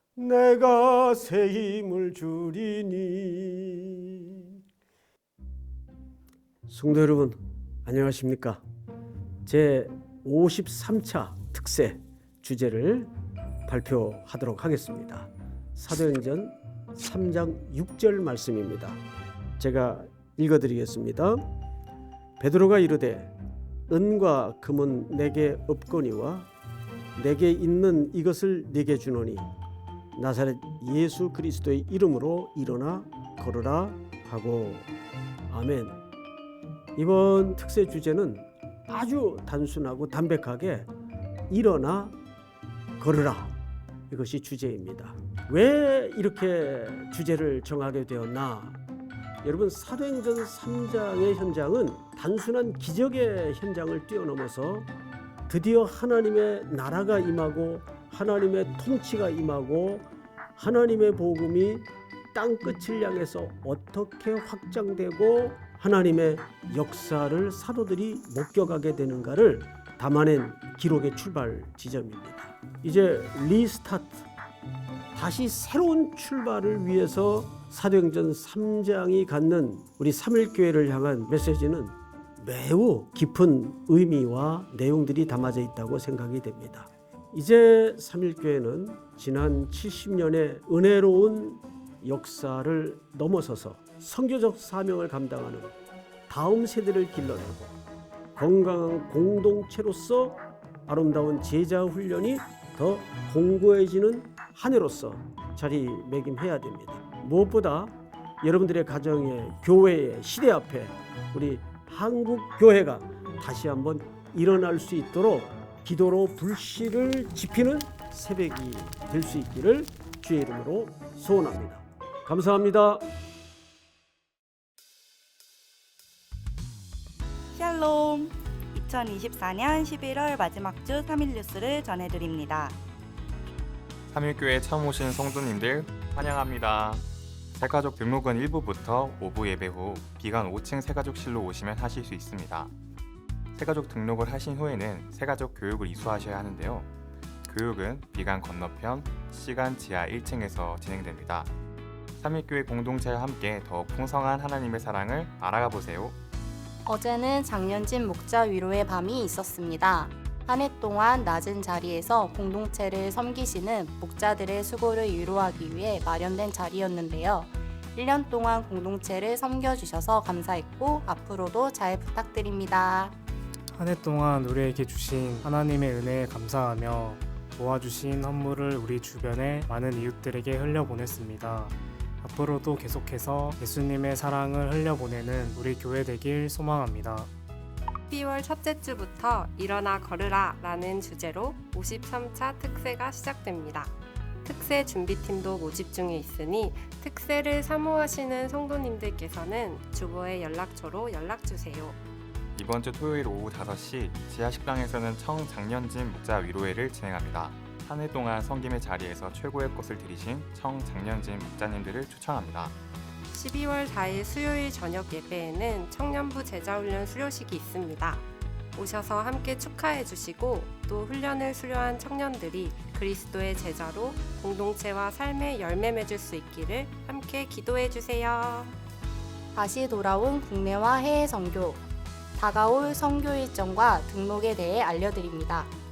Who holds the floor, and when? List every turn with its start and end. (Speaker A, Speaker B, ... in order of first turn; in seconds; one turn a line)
Speaker A: 0.2-4.1
Speaker A: 6.7-8.6
Speaker A: 9.5-13.1
Speaker A: 13.7-19.0
Speaker A: 19.6-21.4
Speaker A: 22.4-23.3
Speaker A: 23.9-26.5
Speaker A: 27.2-29.5
Speaker A: 30.1-34.9
Speaker A: 35.5-36.0
Speaker A: 37.0-40.9
Speaker A: 41.5-42.2
Speaker A: 43.0-43.5
Speaker A: 44.1-48.8
Speaker A: 49.4-54.9
Speaker A: 55.5-74.3
Speaker A: 75.1-95.8
Speaker A: 96.3-97.8
Speaker A: 98.4-123.1
Speaker B: 127.5-132.8
Speaker C: 134.1-142.7
Speaker C: 143.6-146.9
Speaker C: 147.5-151.5
Speaker C: 152.2-156.2
Speaker D: 156.9-173.2
Speaker E: 173.8-187.3
Speaker F: 188.1-202.0
Speaker C: 202.6-212.8
Speaker F: 213.3-228.8
Speaker D: 229.6-231.8
Speaker D: 232.4-235.7